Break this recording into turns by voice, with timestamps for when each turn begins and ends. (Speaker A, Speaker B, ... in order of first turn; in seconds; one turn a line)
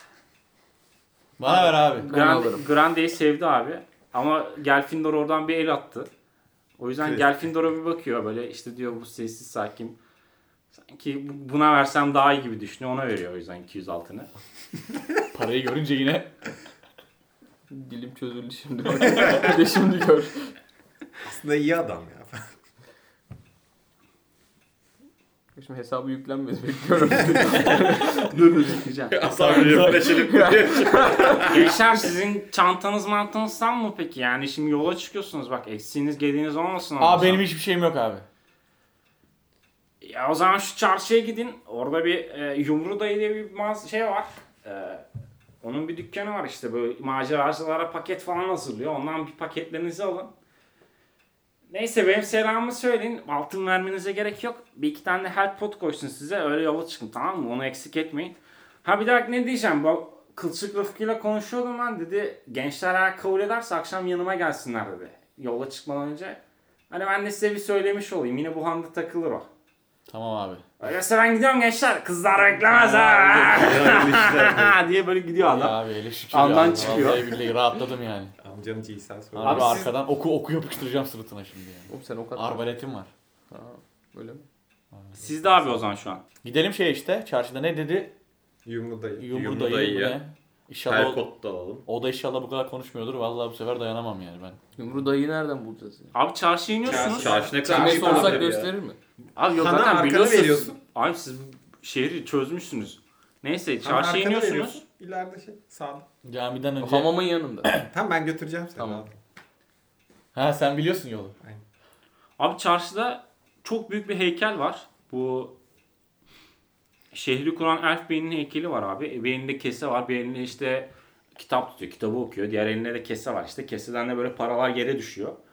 Speaker A: 1.4-2.1
Speaker B: 1.4-6.1
Speaker C: 2.0-2.7
Speaker B: 6.8-10.0
Speaker B: 10.8-14.3
Speaker A: 15.3-16.3
Speaker C: 17.7-20.5
Speaker D: 21.2-22.4
Speaker C: 25.6-28.3
Speaker B: 27.9-29.5
Speaker E: 29.1-31.8
Speaker A: 29.3-30.1
Speaker C: 29.5-31.5
Speaker B: 31.4-37.5
Speaker A: 37.0-38.3
Speaker B: 40.0-45.0
Speaker B: 45.6-50.3
Speaker B: 51.7-66.4
Speaker B: 66.9-69.5
Speaker A: 70.1-70.7
Speaker B: 70.8-75.8
Speaker A: 72.7-73.5
Speaker E: 73.3-74.8
Speaker A: 75.4-78.3
Speaker B: 76.3-77.4
Speaker D: 76.8-77.1
Speaker D: 78.4-79.9
Speaker A: 79.3-83.1
Speaker B: 79.4-79.9
Speaker C: 81.9-82.6
Speaker C: 83.5-84.5
Speaker B: 85.2-86.2
Speaker A: 86.4-88.1
Speaker D: 88.7-89.3
Speaker A: 89.2-91.2
Speaker E: 89.3-90.2
Speaker E: 90.9-91.8
Speaker A: 91.9-94.6
Speaker C: 94.8-96.1
Speaker B: 96.1-97.4
Speaker D: 96.8-98.7
Speaker E: 96.9-98.7
Speaker C: 97.6-99.0
Speaker B: 99.4-104.8
Speaker D: 99.5-100.8
Speaker D: 103.8-106.1
Speaker A: 106.2-107.9
Speaker C: 106.8-107.7
Speaker D: 107.9-109.1
Speaker C: 108.8-109.0
Speaker A: 110.3-111.3
Speaker B: 112.4-115.5
Speaker B: 117.1-125.4